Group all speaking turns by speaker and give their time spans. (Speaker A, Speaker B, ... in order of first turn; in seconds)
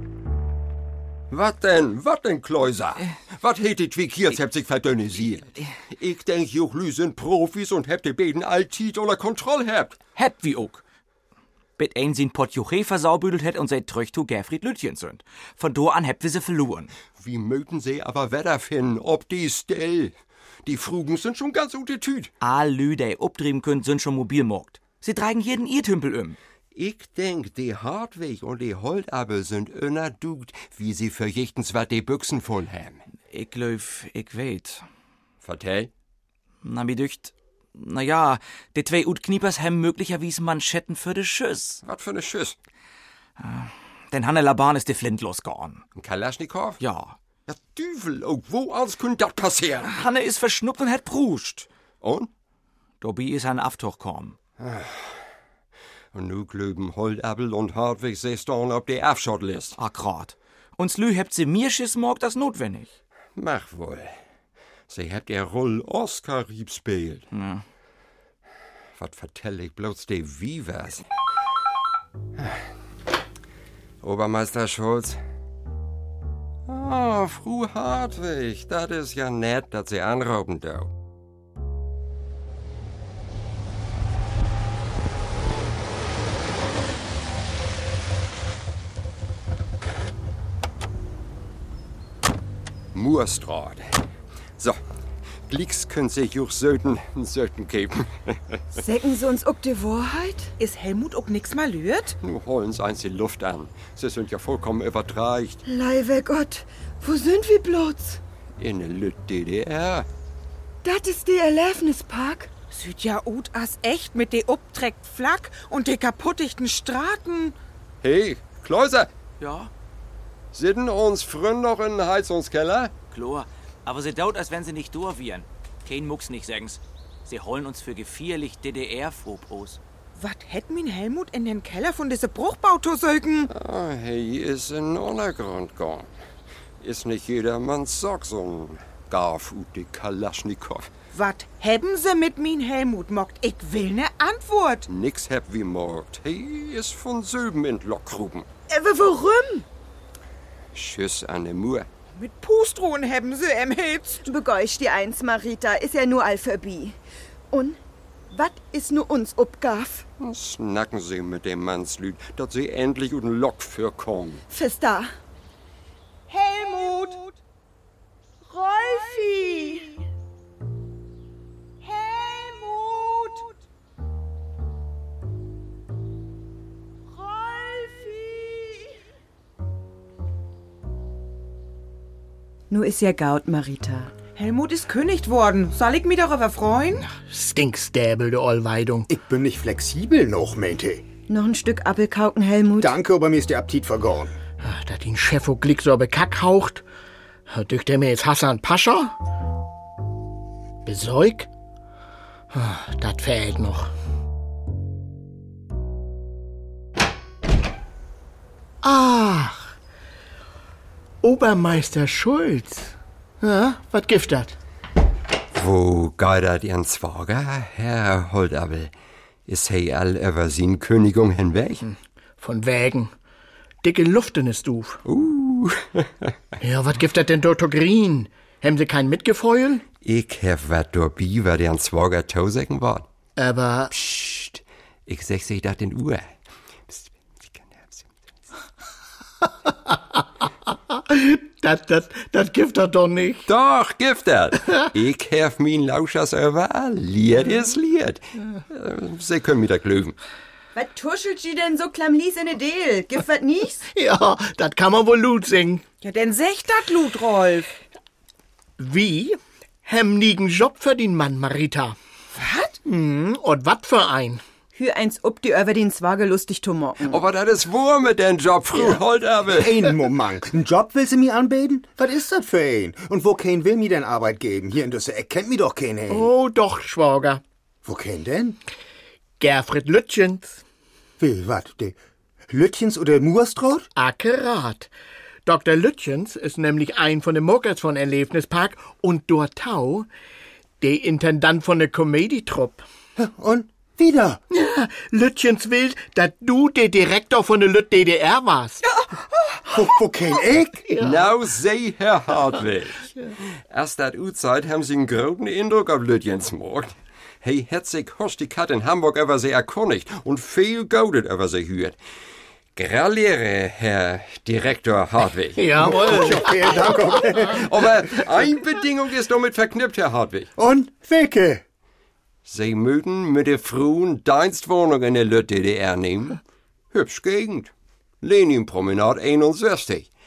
Speaker A: 1.3-10.0, 17.1-22.3, 26.7-33.0, 35.4-35.9, 41.8-42.6, 46.0-46.8, 47.5-49.9, 52.0-52.3, 54.6-55.1, 56.1-59.8, 63.4-64.1, 64.9-67.2, 69.0-71.1, 74.0-75.2, 76.7-80.9, 92.9-93.9, 95.5-98.6, 102.2-105.6, 108.6-110.1, 118.0-119.1, 120.5-122.9, 133.5-136.1, 136.8-140.9, 144.9-148.5, 150.7-151.9, 160.2-164.4, 215.5-218.9, 219.4-221.8, 225.1-226.1, 230.0-233.1, 233.9-236.3, 236.9-238.1, 243.5-250.2, 267.1-269.8, 301.0-303.1, 303.7-312.0, 312.8-316.1, 317.4-320.5, 322.4-326.4, 326.9-330.1
Speaker B: 10.2-10.8, 11.8-16.9, 22.4-26.4, 33.3-34.8, 36.6-41.8, 43.4-45.8, 46.8-47.2, 49.8-51.7, 53.0-54.4, 59.8-62.9, 67.3-67.6, 119.4-119.7, 123.1-129.8
Speaker C: 98.7-100.5, 105.7-108.2, 110.8-112.5, 148.7-149.7, 154.2-157.0, 157.5-157.8, 158.3-160.1, 164.5-165.1, 168.6-169.9, 182.7-184.1, 191.3-192.9, 250.7-253.8, 264.7-267.2
Speaker D: 100.6-102.2, 112.7-117.5, 130.2-133.5, 141.1-144.8, 152.1-154.2, 166.3-167.4, 168.5-169.8, 171.8-173.6, 177.2-178.8, 184.3-187.0, 256.0-257.7, 262.4-262.8
Speaker E: 187.0-189.1, 194.6-196.8, 197.5-199.2, 200.8-201.5, 202.5-203.9, 208.8-209.8, 211.2-214.6, 221.8-223.1, 223.8-225.0, 226.6-229.8, 233.4-233.9, 239.6-243.5, 253.9-255.8, 258.8-262.0, 262.8-264.4, 276.1-277.4, 279.4-280.6, 283.9-284.9, 285.4-290.1, 290.8-292.8, 294.5-298.9, 300.8-301.4, 315.5-317.4
Speaker F: 189.1-191.0, 192.8-194.4, 268.8-276.3, 277.8-278.6, 281.2-282.0, 282.5-283.9, 293.2-294.4, 299.7-300.9, 315.8-317.7, 320.6-321.6